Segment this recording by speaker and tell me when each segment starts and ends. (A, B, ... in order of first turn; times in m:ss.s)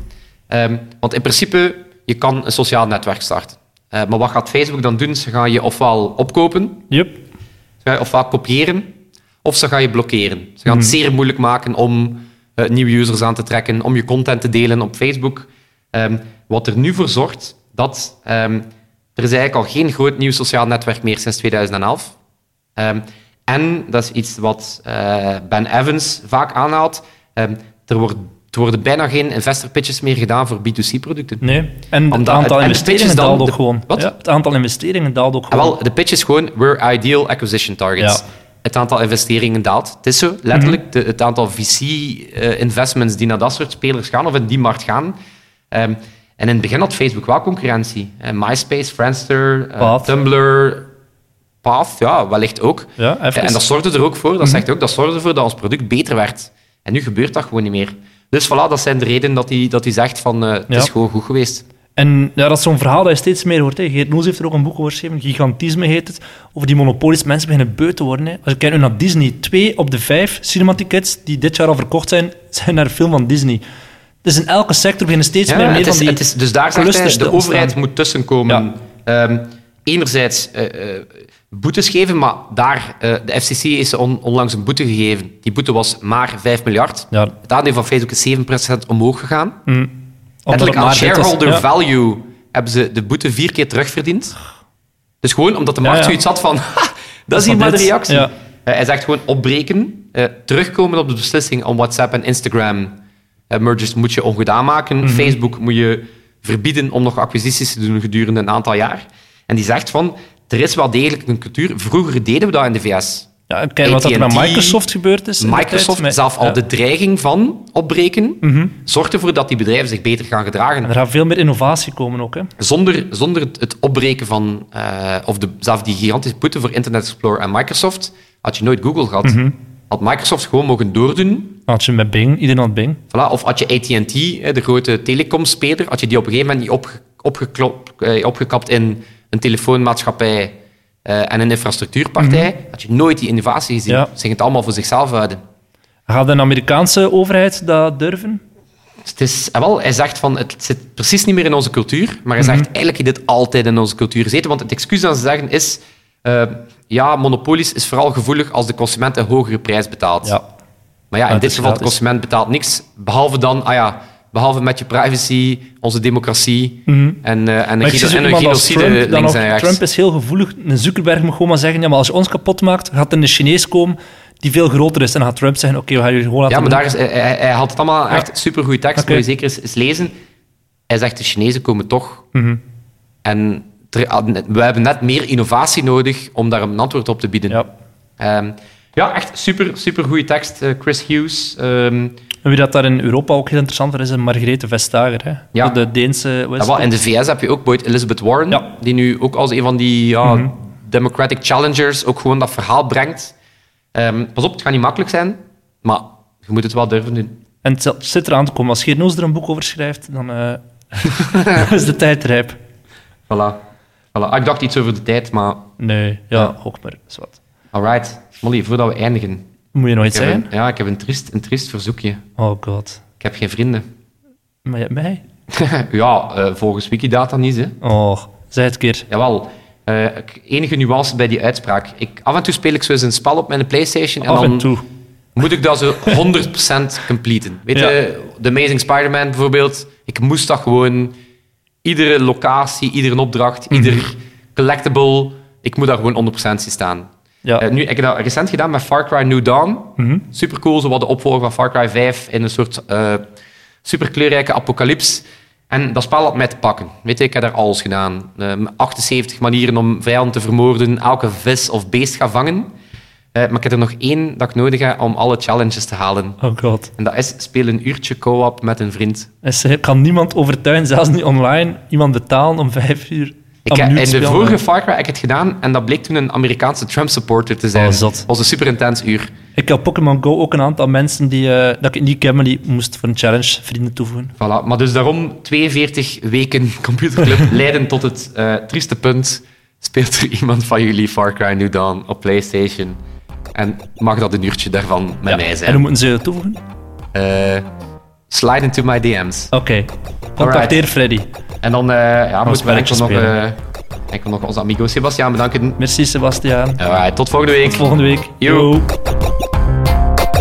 0:00.5-0:06.9 A
0:06.9-0:07.2 B
0:07.8-0:22.1 A
0:10.7-0:10.9 B
0:22.8-0:31.4 A
0:31.4-0:35.8 B
0:32.1-0:34.1 A
0:35.5-0:45.1 A
0:40.5-0:40.8 B
0:45.7-0:50.9 A
0:49.8-0:50.1 B
0:51.6-1:01.6 A
0:53.0-0:53.6 B
1:02.0-1:13.6 B
1:14.2-1:17.8 B
1:15.5-1:29.6 A
1:29.7-1:29.9 B
1:30.4-1:31.6 B
1:30.5-1:34.4 A
1:35.2-1:43.0 A
1:35.8-1:36.2 B
1:37.3-1:38.3 B
1:43.5-1:53.3 A
1:45.0-1:45.3 B
1:53.5-1:56.6 B
1:53.8-1:54.8 A
1:55.4-2:00.9 A
1:58.4-1:58.7 B
2:00.8-2:02.5 B
2:02.6-2:11.6 A
2:09.2-2:09.6 B
2:11.7-2:13.0 B
2:13.1-2:25.4 A
2:22.2-2:22.5 B
2:26.1-2:28.4 B
2:29.0-2:40.4 A
2:32.4-2:32.7 B
2:41.1-2:49.8 A
2:41.3-2:42.0 B
2:46.9-2:47.2 B
2:47.8-2:56.8 B
2:56.5-3:00.1 A
2:59.0-2:59.2 B
3:00.9-3:02.3 A
3:02.3-3:02.6 B
3:03.2-3:07.6 A
3:08.2-3:12.2 A
3:12.4-3:16.9 B
3:16.6-3:23.3 A
3:20.2-3:20.5 B
3:23.9-3:27.4 A
3:27.6-3:32.6 B
3:31.2-3:31.6 A
3:33.3-3:33.6 A
3:34.1-3:35.7 A
3:35.8-3:37.4 B
3:37.7-3:39.5 A
3:39.7-3:40.5 B
3:40.1-3:42.2 A
3:42.4-3:43.0 B
3:43.2-3:43.8 A
3:44.6-3:45.2 B
3:45.5-3:47.8 A
3:47.8-3:49.1 B
3:49.1-3:54.7 A
3:54.2-3:54.8 B
3:55.4-4:01.2 A
4:01.8-4:13.2 A
4:03.7-4:04.0 B
4:10.0-4:10.2 B
4:13.8-4:22.7 A
4:23.3-4:26.4 A
4:26.4-4:26.9 B
4:27.0-4:29.3 A
4:29.4-4:34.6 B
4:33.6-4:39.3 A
4:37.7-4:38.3 B
4:39.6-4:44.3 B
4:44.4-4:53.0 A
4:53.5-4:55.8 A
4:55.3-4:56.6 B
4:57.1-4:57.6 A
4:58.3-4:59.5 A
4:59.5-5:01.3 B
5:00.4-5:00.8 A
5:01.6-5:05.8 A
5:02.4-5:03.4 B
5:05.8-5:06.8 B
5:06.8-5:08.7 A
5:07.6-5:08.9 B